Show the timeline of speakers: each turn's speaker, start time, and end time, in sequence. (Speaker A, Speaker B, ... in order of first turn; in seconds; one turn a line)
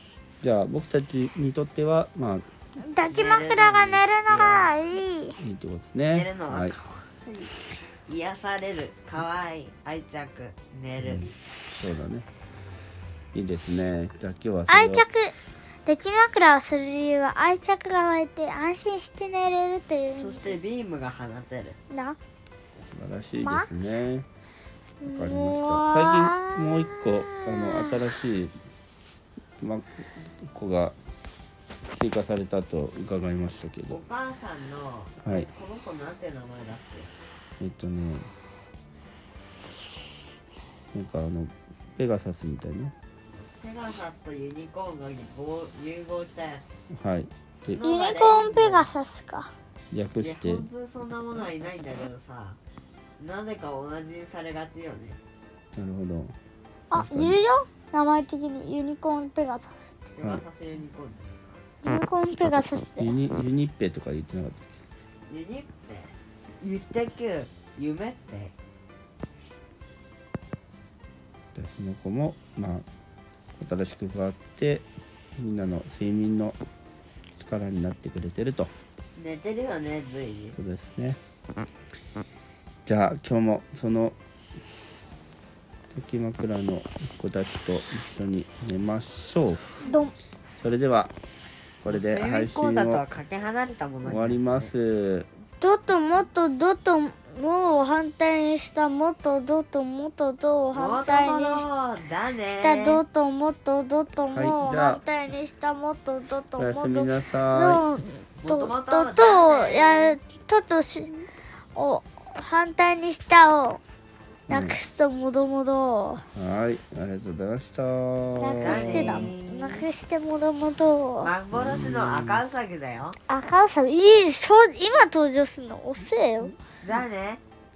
Speaker A: 0.4-2.5
Speaker B: 2.8-5.4
Speaker C: 3.1-4.7
Speaker A: 5.4-6.8
Speaker C: 6.1-7.5
Speaker C: 8.1-11.2
Speaker A: 11.0-12.3
Speaker A: 13.3-15.0
Speaker B: 14.7-15.3
Speaker B: 15.8-20.6
Speaker C: 20.1-21.8
Speaker B: 21.9-22.2
Speaker A: 22.9-24.3
Speaker B: 23.4-23.7
Speaker B: 25.0-28.0
Speaker A: 25.1-28.6
Speaker A: 29.6-31.0
Speaker A: 31.9-34.0
Speaker C: 33.9-37.1
Speaker A: 35.2-35.5
Speaker A: 37.6-38.3
Speaker A: 40.9-42.9
Speaker C: 43.3-46.7
Speaker A: 46.9-47.7
Speaker C: 47.6-48.9
Speaker B: 47.8-49.5
Speaker A: 49.9-50.7
Speaker C: 50.2-52.6
Speaker C: 53.2-55.2
Speaker A: 55.8-56.4
Speaker B: 56.9-59.9
Speaker A: 56.9-57.4
Speaker C: 60.2-61.5
Speaker B: 61.8-63.2
Speaker A: 63.0-64.8
Speaker C: 65.3-68.5
Speaker A: 71.5-72.9
Speaker A: 73.6-74.8
Speaker A: 75.4-76.6
Speaker A: 77.4-78.7
Speaker C: 79.2-80.6
Speaker A: 80.6-81.2
Speaker A: 82.9-84.2
Speaker A: 85.9-89.6
Speaker B: 89.8-90.2
Speaker A: 90.6-91.1
Speaker A: 91.8-93.0
Speaker C: 91.9-94.7
Speaker A: 94.0-95.3
Speaker B: 95.6-101.7
Speaker C: 100.7-103.0
Speaker B: 102.5-113.8
Speaker A: 104.3-105.0
Speaker A: 106.6-107.8
Speaker C: 108.4-110.2
Speaker A: 114.5-114.8
Speaker B: 114.5-116.2
Speaker A: 116.3-119.3
Speaker B: 118.4-121.3
Speaker C: 118.6-119.9
Speaker C: 121.2-123.2
Speaker A: 121.5-122.4
Speaker B: 123.3-126.5
Speaker C: 126.8-127.4